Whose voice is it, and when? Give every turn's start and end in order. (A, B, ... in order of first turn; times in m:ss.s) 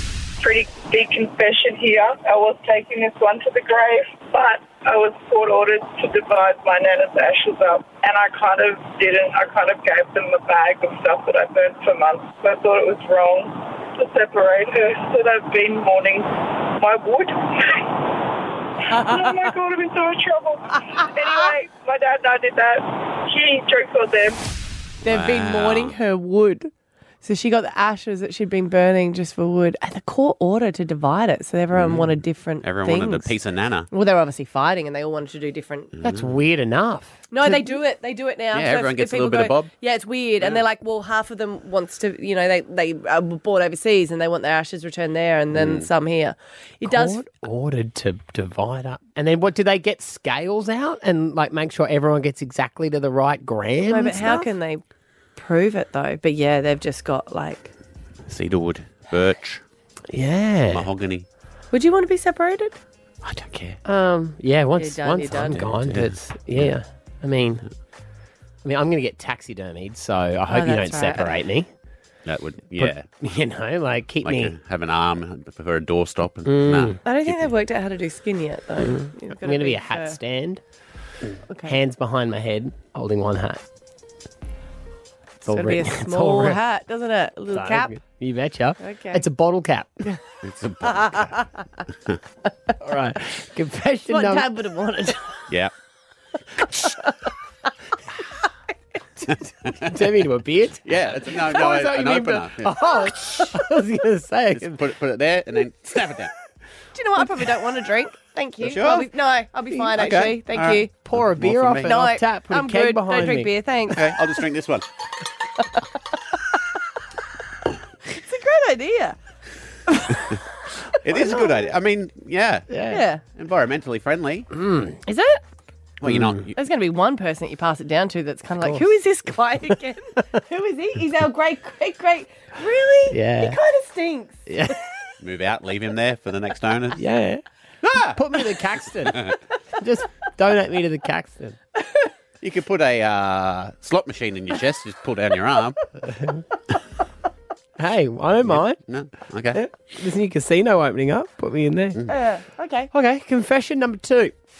0:00.4-0:18.2 A
0:18.9-0:24.5 A
0:25.0-0:26.7 B
0:25.0-0:26.0 C
0:27.2-0:33.3 B
0:31.7-0:32.1 C
0:32.6-0:33.9 C
0:33.9-0:35.9 B
0:36.0-0:37.8 D
0:36.0-0:36.4 C
0:37.3-0:47.3 B
0:38.5-0:39.7 C
0:45.6-0:45.9 C
0:46.8-0:54.5 D
0:53.9-0:54.8 B
0:55.4-0:57.7 B
0:58.3-0:59.6 C
1:00.1-1:00.9 D
1:00.7-1:01.3 C
1:01.7-1:02.8 B
1:03.2-1:03.8 C
1:03.8-1:07.6 D
1:04.8-1:05.7 B
1:05.6-1:06.7 C
1:08.6-1:11.7 D
1:10.5-1:11.4 B
1:12.3-1:13.2 C
1:12.7-1:14.6 D
1:14.2-1:17.5 C
1:16.4-1:17.0 D
1:17.0-1:20.2 B
1:18.8-1:20.6 D
1:21.5-1:21.8 B
1:21.6-1:23.6 D
1:25.4-1:26.6 D
1:25.5-1:28.0 B
1:27.5-1:30.0 D
1:28.8-1:29.2 B
1:30.4-1:31.3 C
1:30.8-1:31.5 B
1:32.8-1:34.5 D
1:34.1-1:35.4 B
1:39.8-1:44.8 D
1:40.8-1:42.7 C
1:44.5-1:46.3 C
1:47.0-1:51.0 B
1:48.6-1:49.1 C
1:50.0-1:52.0 C
1:51.0-1:53.5 D
1:51.8-1:54.1 B
1:53.9-1:54.8 C
1:58.1-1:59.2 B
1:59.9-2:00.2 B
2:01.0-2:02.7 C
2:01.1-2:01.7 B
2:02.7-2:03.0 D
2:02.9-2:03.2 B
2:03.3-2:04.5 C
2:04.5-2:05.2 D
2:05.1-2:05.4 B
2:06.0-2:06.6 C
2:06.0-2:06.5 D
2:06.6-2:14.8 B
2:13.1-2:13.6 D
2:14.5-2:14.8 D
2:15.2-2:17.0 C
2:17.0-2:17.4 D
2:17.8-2:18.2 C
2:18.0-2:21.6 D
2:22.4-2:25.8 C
2:26.1-2:26.4 D
2:27.8-2:28.8 D
2:28.4-2:29.6 C
2:29.5-2:32.0 D
2:32.1-2:32.9 B
2:32.9-2:34.3 D